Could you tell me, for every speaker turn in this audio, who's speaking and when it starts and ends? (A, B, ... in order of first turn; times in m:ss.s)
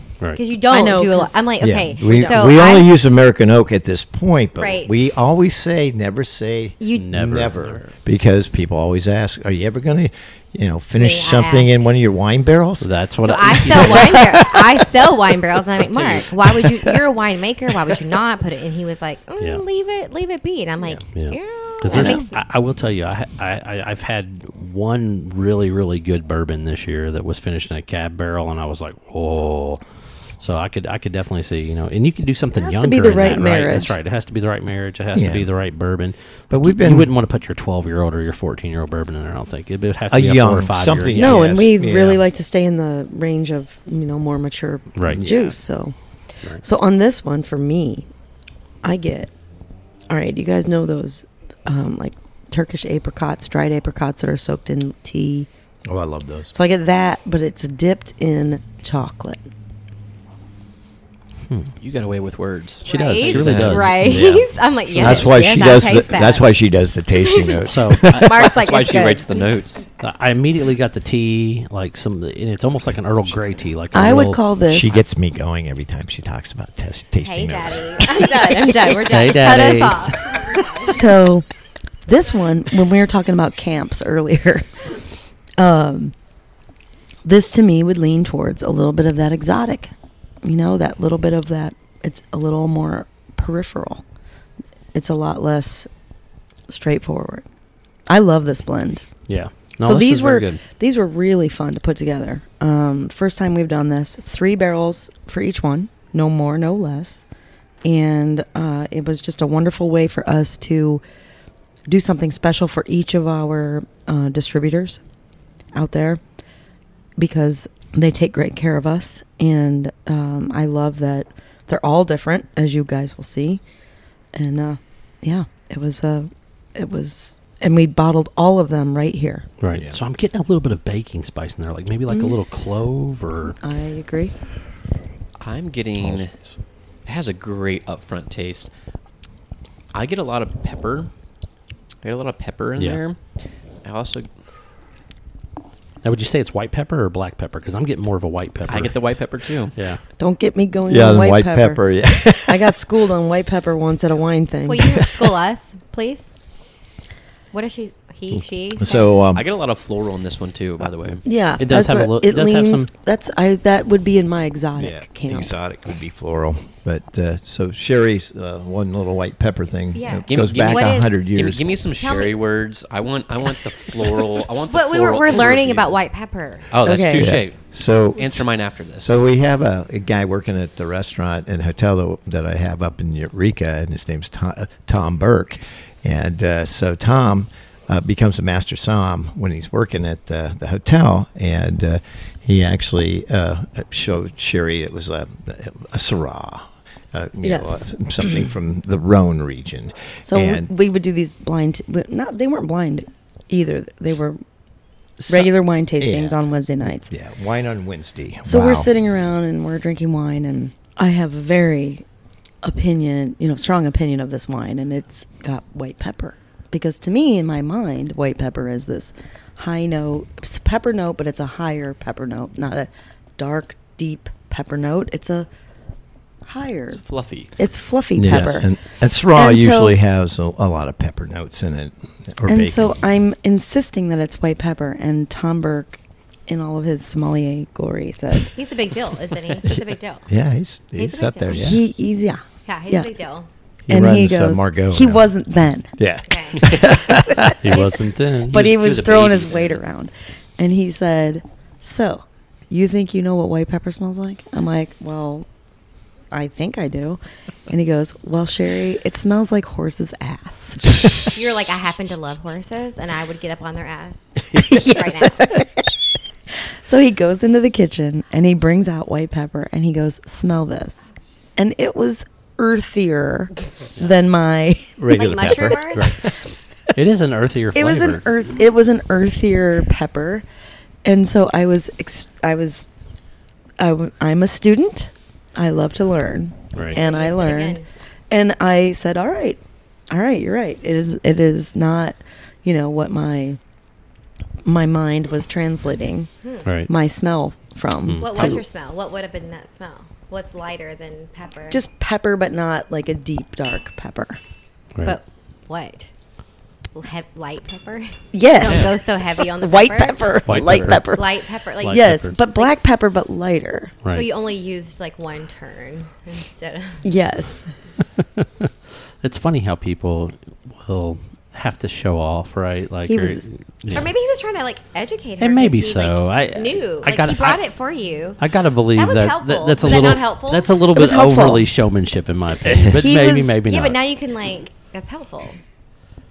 0:00.3-0:02.9 A
0:00.7-0:01.4 B
0:01.6-0:12.9 C
0:02.0-0:02.5 B
0:04.6-0:04.9 A
0:06.8-0:07.1 A
0:06.9-0:07.8 D
0:11.0-0:11.7 A
0:12.8-0:14.3 D
0:13.2-0:22.4 A
0:13.6-0:14.6 C
0:15.9-0:16.2 D
0:16.5-0:16.9 C
0:21.1-0:29.8 D
0:21.9-0:22.2 C
0:30.4-0:41.5 D
0:32.6-0:33.9 B
0:35.2-0:35.5 C
0:36.5-0:37.1 C
0:40.1-0:42.2 C
0:41.2-0:46.0 B
0:45.0-0:45.2 D
0:45.1-0:45.6 C
0:46.6-0:48.1 B
0:48.8-0:49.3 B
0:50.1-0:55.5 B
0:55.9-0:56.5 C
0:56.5-0:59.4 B
1:01.8-1:04.0 E
1:02.8-1:06.5 A
1:02.8-1:04.0 D
1:03.5-1:08.3 C
1:07.1-1:09.6 A
1:07.6-1:08.3 D
1:08.2-1:09.8 E
1:10.0-1:14.4 D
1:13.9-1:15.0 B
1:14.7-1:18.6 C
1:17.2-1:21.1 A
1:19.0-1:20.2 D
1:20.8-1:21.5 B
1:22.1-1:24.9 B
1:25.6-1:26.1 B
1:27.2-1:29.9 B
1:30.4-1:34.0 B
1:34.9-1:35.9 B
1:36.7-1:37.4 B
1:38.1-1:39.0 B
1:39.3-1:40.6 D
1:39.8-1:47.2 B
1:47.8-1:51.0 B
1:51.9-1:55.0 B
1:55.7-1:56.2 B
1:57.2-2:03.6 B
2:04.3-2:09.5 B
2:09.6-2:13.6 D
2:09.7-2:10.0 C
2:12.1-2:12.4 B
2:13.6-2:14.4 B
2:15.4-2:16.4 E
2:17.0-2:18.7 E
2:19.9-2:21.1 E
2:22.0-2:23.2 E
2:22.8-2:23.0 D
2:23.8-2:24.3 E
2:26.0-2:29.0 D
2:28.7-2:29.7 E
2:29.8-2:30.0 D
2:30.2-2:31.8 B
2:30.9-2:32.8 C
2:32.4-2:35.2 B
2:34.7-2:36.3 A
2:37.5-2:39.2 A
2:38.8-2:39.4 C
2:39.3-2:41.2 E
2:41.2-2:45.5 B
2:41.6-2:42.9 D
2:44.8-2:51.8 C
2:49.9-2:51.1 A
2:50.3-2:56.0 E
2:52.0-2:52.4 A
2:54.7-2:56.7 A
2:56.7-2:57.6 E
2:56.8-2:57.3 B
2:57.1-2:58.4 C
2:58.2-2:59.2 E
2:59.0-3:20.7 C
3:17.4-3:17.9 B
3:20.3-3:24.4 B
3:25.2-3:26.4 C
3:25.3-3:27.1 B
3:27.1-3:28.9 C
3:28.5-3:32.0 B
3:32.6-3:45.5 B
3:46.4-3:47.0 B
3:47.0-3:47.5 E
3:47.6-3:48.7 B
3:48.2-3:53.0 C
3:49.3-3:50.0 B
3:52.5-3:58.5 B
3:58.5-4:00.3 A
3:59.7-4:01.8 C
4:01.0-4:01.8 A
4:01.5-4:03.1 B
4:02.7-4:03.5 A
4:03.9-4:05.3 C
4:03.9-4:05.9 B
4:06.0-4:07.6 C
4:06.3-4:08.0 A
4:07.6-4:08.8 D
4:08.5-4:15.5 B
4:08.5-4:09.8 E
4:16.3-4:21.2 B
4:21.3-4:25.4 A
4:24.5-4:25.9 B
4:26.8-4:35.0 B
4:35.0-4:36.2 C
4:35.1-4:36.2 A
4:36.9-4:38.3 D
4:37.7-4:40.4 B
4:41.0-4:42.9 B
4:43.8-4:53.6 B
4:46.7-4:47.0 D
4:46.8-4:47.9 A
4:54.6-4:56.3 B
4:56.4-4:56.7 A
4:56.6-4:56.9 D
4:56.9-4:58.6 B
4:58.0-4:58.6 D
4:58.2-5:01.8 A
5:01.7-5:04.4 B
5:05.0-5:06.1 A
5:06.9-5:10.4 A
5:08.3-5:11.4 B
5:10.5-5:11.1 D
5:11.0-5:12.7 A
5:11.8-5:12.3 D
5:11.9-5:14.0 B
5:14.1-5:17.1 A
5:17.0-5:17.7 B
5:18.2-5:18.7 D
5:19.2-5:24.1 D
5:23.1-5:23.4 B
5:23.9-5:28.4 A
5:25.4-5:27.6 D
5:28.4-5:34.0 D
5:29.0-5:30.7 A
5:30.9-5:31.7 B
5:32.7-5:32.9 C
5:33.0-5:33.6 B
5:33.6-5:35.6 A